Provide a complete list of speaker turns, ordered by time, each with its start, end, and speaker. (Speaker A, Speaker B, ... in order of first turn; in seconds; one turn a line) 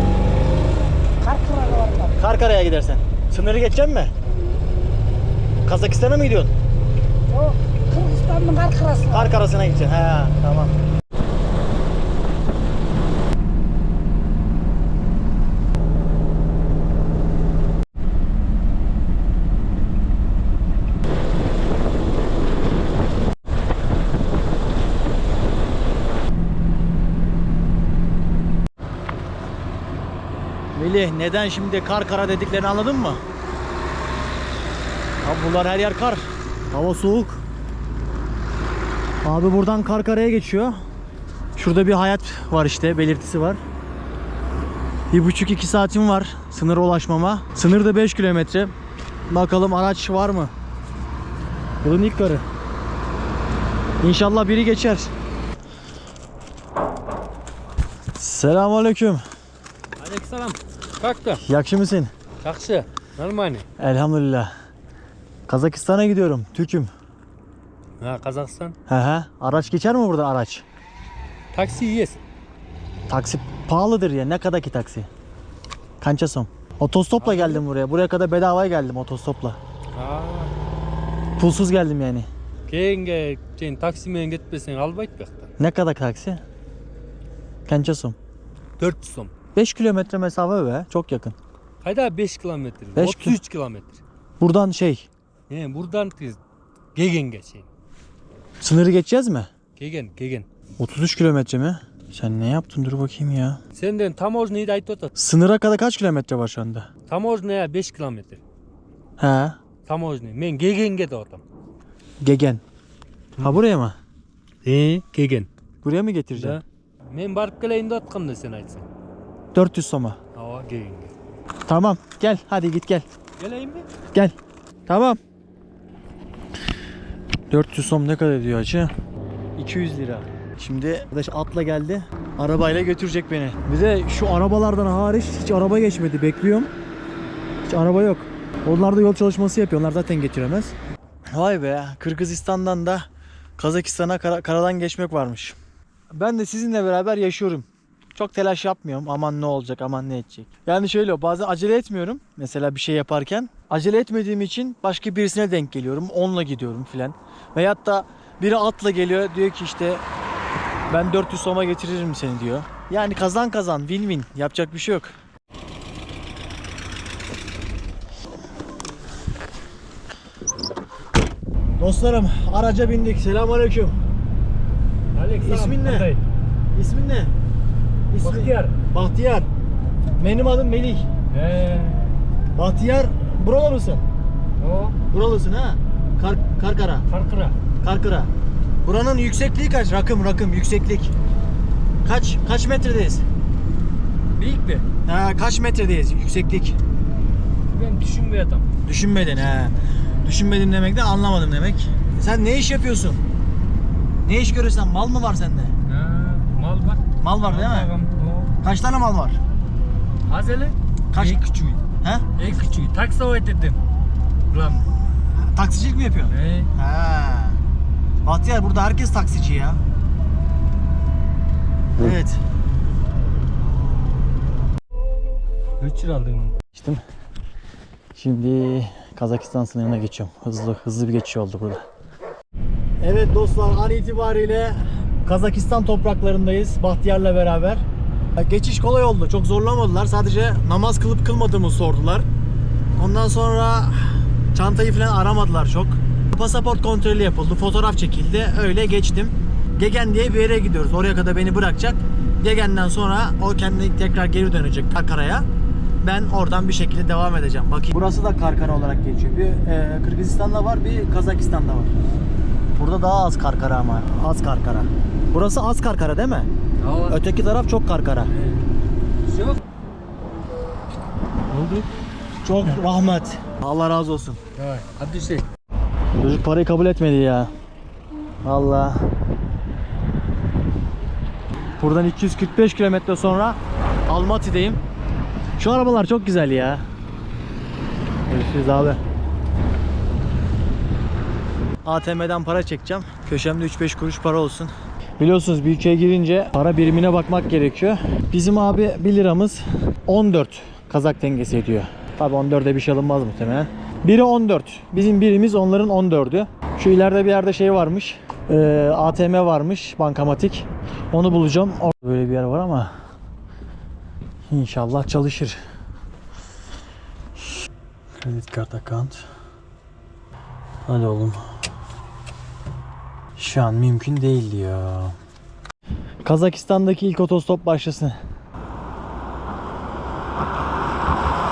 Speaker A: 1.2-2.1
Speaker B: 2.2-4.1
Speaker B: 5.6-6.5
Speaker A: 7.3-9.3
Speaker B: 9.1-10.7
Speaker B: 30.7-33.2
Speaker B: 35.2-37.4
Speaker B: 39.2-40.8
Speaker B: 41.6-43.6
Speaker B: 45.1-48.7
Speaker B: 49.3-50.5
Speaker B: 51.8-52.4
Speaker B: 54.0-55.1
Speaker B: 58.2-59.2
Speaker C: 60.0-61.4
Speaker B: 61.4-62.1
Speaker C: 62.4-63.6
Speaker B: 63.8-64.5
Speaker B: 65.5-66.9
Speaker C: 68.0-68.8
Speaker B: 68.9-70.6
Speaker C: 71.5-72.2
Speaker B: 73.1-75.1
Speaker B: 76.0-79.6
Speaker C: 77.2-77.6
Speaker C: 79.9-80.5
Speaker B: 81.4-82.3
Speaker C: 82.7-85.5
Speaker B: 85.6-86.4
Speaker B: 87.7-88.2
Speaker C: 88.8-89.3
Speaker B: 89.5-91.3
Speaker C: 91.8-94.0
Speaker B: 93.0-93.4
Speaker B: 94.4-95.0
Speaker C: 95.5-96.4
Speaker C: 96.9-97.7
Speaker B: 98.6-99.5
Speaker C: 99.8-100.5
Speaker B: 100.8-103.6
Speaker C: 103.7-105.1
Speaker B: 105.2-106.9
Speaker C: 107.1-108.4
Speaker B: 109.2-109.6
Speaker C: 109.8-111.4
Speaker B: 112.2-112.6
Speaker B: 113.4-114.0
Speaker C: 114.6-115.5
Speaker B: 115.8-116.6
Speaker C: 116.3-118.9
Speaker B: 119.5-120.2
Speaker C: 120.3-121.1
Speaker B: 121.7-123.0
Speaker C: 123.4-123.9
Speaker B: 124.9-125.2
Speaker B: 127.5-128.9
Speaker B: 129.6-136.7
Speaker B: 137.7-140.7
Speaker B: 141.3-143.1
Speaker B: 143.6-145.6
Speaker B: 146.1-160.0
Speaker B: 160.9-165.1
Speaker B: 171.8-174.0
Speaker C: 175.1-176.2
Speaker B: 175.4-176.1
Speaker B: 176.7-177.3
Speaker B: 178.1-179.5
Speaker C: 178.2-178.8
Speaker B: 180.2-181.1
Speaker C: 181.3-182.2
Speaker B: 182.5-184.0
Speaker C: 184.6-184.9
Speaker B: 185.1-187.0
Speaker C: 187.1-187.5
Speaker B: 187.8-188.3
Speaker B: 188.8-191.1
Speaker B: 192.0-193.2
Speaker C: 194.4-194.8
Speaker B: 195.1-196.8
Speaker C: 197.7-198.7
Speaker B: 198.8-203.2
Speaker B: 204.2-205.7
Speaker C: 205.9-208.5
Speaker B: 207.2-207.9
Speaker B: 208.6-209.4
Speaker C: 210.2-211.8
Speaker B: 211.1-211.4
Speaker C: 212.4-213.8
Speaker C: 214.5-214.9
Speaker B: 215.4-217.6
Speaker C: 216.3-216.7
Speaker B: 218.2-219.8
Speaker B: 222.0-222.4
Speaker C: 225.8-226.6
Speaker B: 226.7-227.0
Speaker B: 228.2-231.8
Speaker B: 233.0-237.8
Speaker B: 238.4-242.2
Speaker B: 243.0-255.4
Speaker B: 256.0-261.9
Speaker B: 262.8-266.5
Speaker C: 266.8-267.2
Speaker B: 267.1-268.3
Speaker C: 268.3-268.6
Speaker C: 269.3-269.6
Speaker C: 271.5-271.9
Speaker B: 272.4-274.4
Speaker C: 274.6-275.4
Speaker B: 276.2-277.5
Speaker B: 278.4-279.0
Speaker B: 281.8-284.8
Speaker B: 285.6-286.8
Speaker B: 288.3-289.0
Speaker B: 291.8-312.9
Speaker B: 314.5-315.6
Speaker B: 318.2-319.2
Speaker B: 320.9-321.4
Speaker B: 323.4-325.1
Speaker B: 326.2-328.2